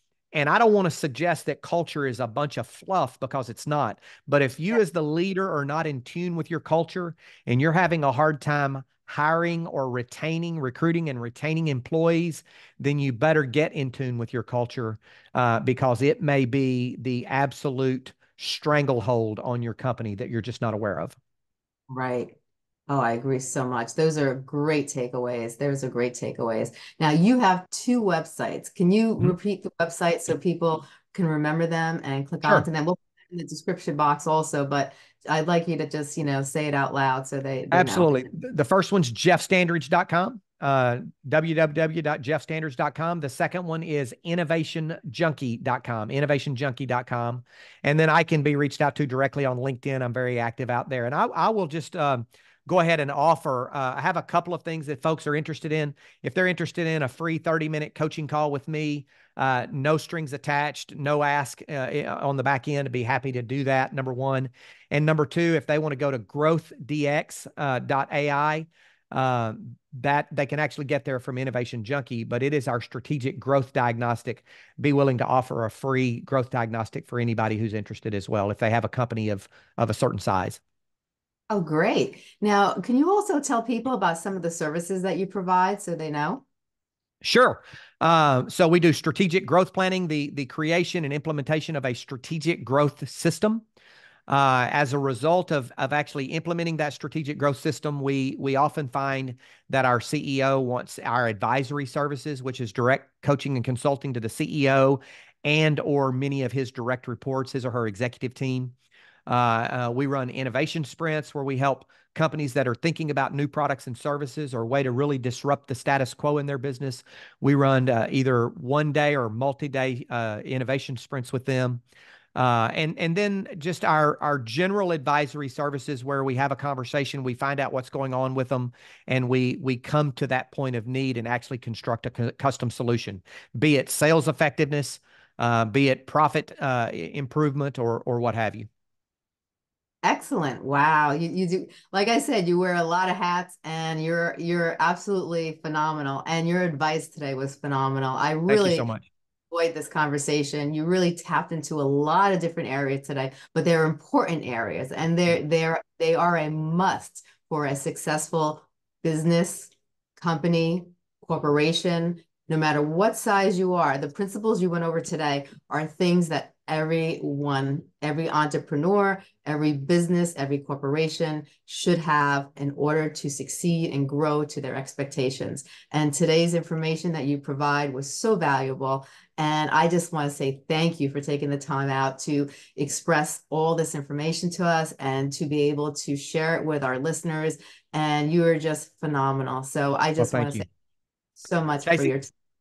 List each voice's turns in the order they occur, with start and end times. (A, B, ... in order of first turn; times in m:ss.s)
0:00.3-0:21.2 A
0:21.9-0:22.3 B
0:22.9-0:38.3 B
0:37.7-1:20.6 A
1:21.5-1:26.4 B
1:27.2-1:33.6 A
1:34.3-1:48.7 A
1:49.3-2:01.8 A
2:02.3-2:18.7 A
2:20.0-2:28.9 B
2:28.5-2:29.1 A
2:29.5-3:10.7 B
3:10.2-3:10.6 A
3:11.4-3:12.3 B
3:11.8-3:12.1 A